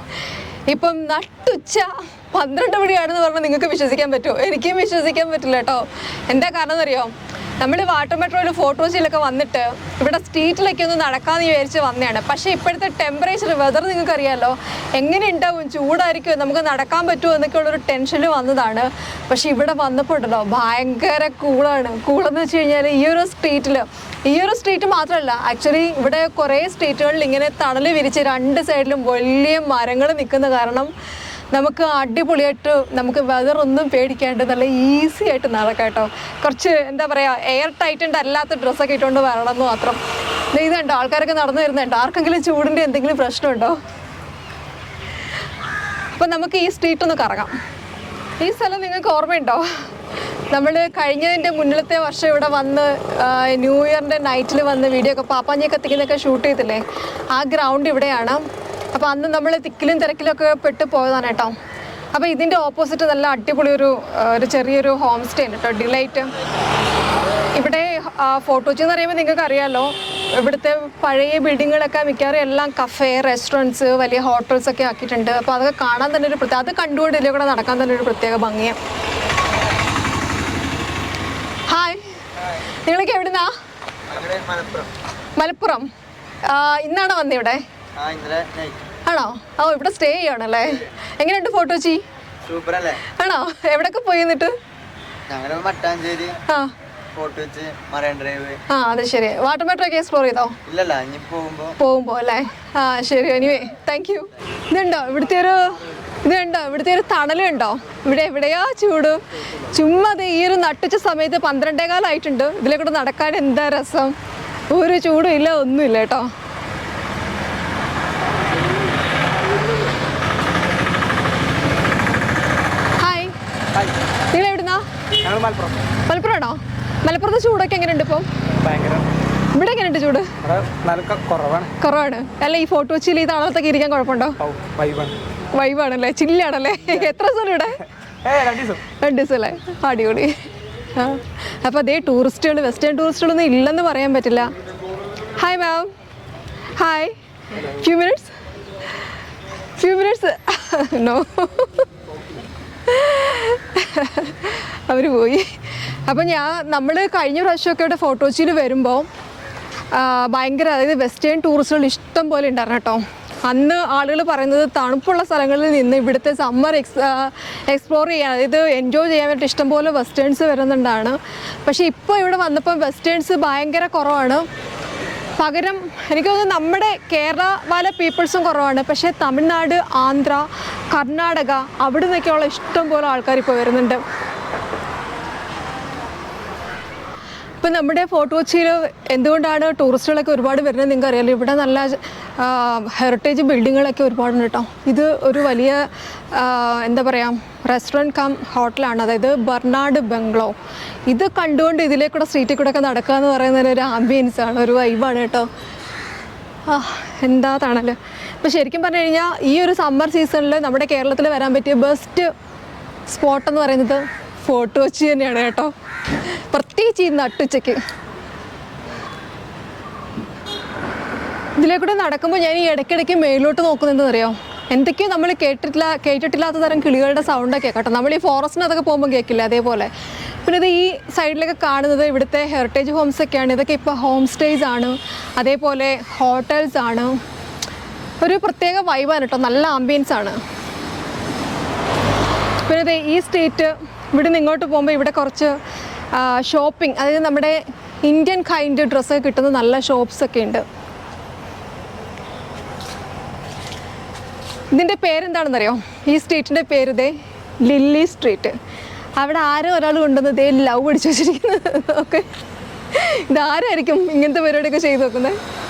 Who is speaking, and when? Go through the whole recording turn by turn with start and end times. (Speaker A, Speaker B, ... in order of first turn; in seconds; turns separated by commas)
Speaker A: 0.7-30.9, Speaker A: 31.5-40.0, Speaker A: 40.5-43.8, Speaker A: 46.1-47.5, Speaker A: 48.4-49.6, Speaker A: 50.5-58.4, Speaker A: 58.9-61.5, Speaker A: 62.1-66.3, Speaker A: 67.5-78.8, Speaker A: 81.7-83.5, Speaker B: 84.1-84.9, Speaker A: 85.4-85.9, Speaker A: 86.4-87.6, Speaker B: 88.0-88.8, Speaker A: 89.0-92.0, Speaker B: 92.4-93.0, Speaker A: 93.0-94.5, Speaker B: 95.3-96.4, Speaker A: 96.5-96.7, Speaker B: 97.1-98.6, Speaker A: 98.7-100.6, Speaker B: 100.7-101.8, Speaker A: 101.8-114.2, Speaker A: 114.7-116.3, Speaker A: 123.0-123.3, Speaker A: 124.3-124.8, Speaker C: 125.2-125.8, Speaker A: 126.0-128.3, Speaker C: 128.6-129.1, Speaker A: 129.5-130.3, Speaker C: 130.4-131.7, Speaker A: 131.8-134.4, Speaker C: 134.4-135.2, Speaker A: 135.5-137.8, Speaker C: 138.2-138.8, Speaker A: 139.0-140.4, Speaker A: 140.9-144.5, Speaker A: 145.4-145.9, Speaker A: 146.8-148.3, Speaker A: 149.8-151.8, Speaker A: 152.8-159.1, Speaker A: 159.9-174.4, Speaker A: 175.4-184.0, Speaker A: 187.6-200.5, Speaker A: 201.1-205.5, Speaker A: 206.7-212.3, Speaker A: 213.1-215.7, Speaker A: 216.2-217.8, Speaker A: 221.6-229.9, Speaker A: 230.4-237.2, Speaker A: 238.2-240.4, Speaker A: 242.7-245.6, Speaker A: 246.1-250.6, Speaker A: 254.7-258.6, Speaker A: 259.2-262.3, Speaker A: 262.9-265.4